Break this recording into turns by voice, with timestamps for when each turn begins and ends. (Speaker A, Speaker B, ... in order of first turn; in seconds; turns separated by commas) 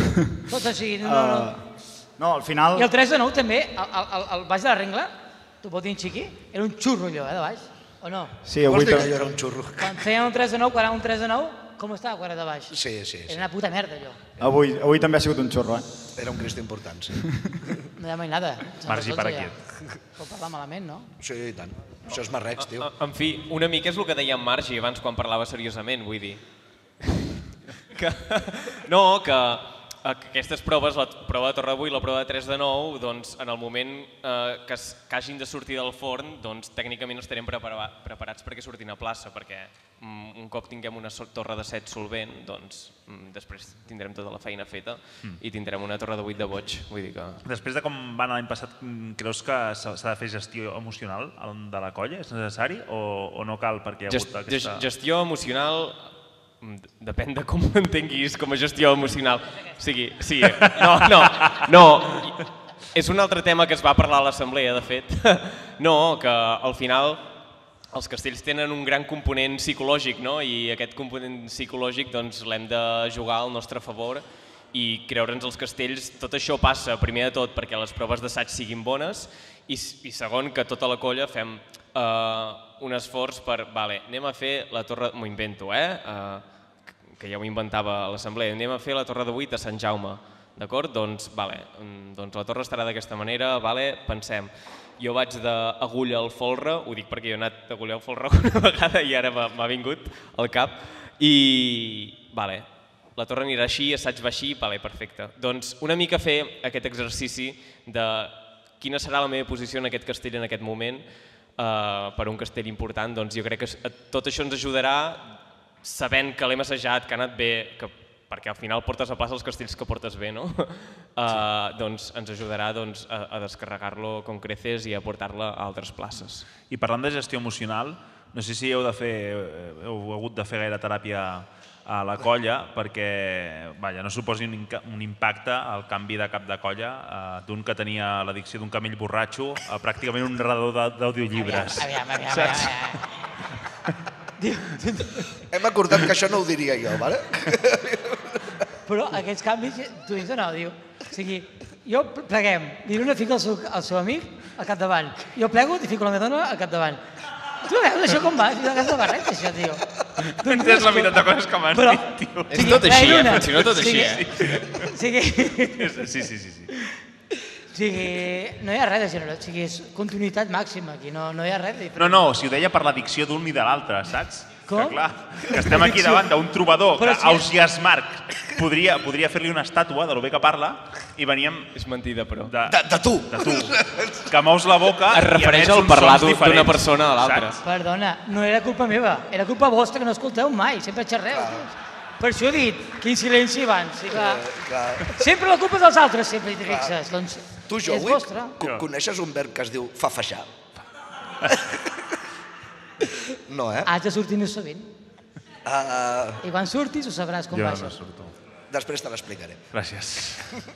Speaker A: 0.5-1.5, Speaker B: 1.0-2.9, Speaker A: 2.7-8.4, Speaker B: 8.4-9.2, Speaker C: 8.6-10.0, Speaker A: 9.8-14.2, Speaker C: 12.7-13.4, Speaker B: 14.4-15.9, Speaker C: 16.1-17.8, Speaker A: 17.9-19.5, Speaker D: 18.9-19.6, Speaker A: 20.1-21.1, Speaker C: 21.2-22.9, Speaker E: 22.6-26.4, Speaker E: 27.0-27.3, Speaker E: 27.9-47.4, Speaker D: 47.4-54.8, Speaker E: 54.1-67.3, Speaker D: 60.6-61.7, Speaker E: 67.9-86.4, Speaker E: 87.0-126.5, Speaker D: 126.5-143.0, Speaker A: 141.4-143.1, Speaker A: 144.4-145.4, Speaker C: 145.4-148.6, Speaker A: 148.9-157.0, Speaker A: 157.6-166.0, Speaker D: 160.3-164.9, Speaker E: 162.5-164.5, Speaker D: 165.7-166.7, Speaker A: 167.7-172.2, Speaker D: 171.9-181.7, Speaker A: 174.7-176.2, Speaker A: 177.0-177.5, Speaker E: 181.7-182.5, Speaker D: 182.4-187.5, Speaker C: 182.7-184.3, Speaker E: 185.1-187.6, Speaker A: 187.6-194.4, Speaker C: 191.3-191.7, Speaker C: 194.1-195.1, Speaker A: 195.1-198.5, Speaker C: 196.7-196.9, Speaker C: 197.7-200.5, Speaker C: 201.4-202.2, Speaker C: 203.0-203.9, Speaker A: 203.8-204.9, Speaker C: 205.7-206.4, Speaker A: 206.4-207.9, Speaker D: 207.5-208.3, Speaker C: 208.7-209.6, Speaker D: 209.7-210.6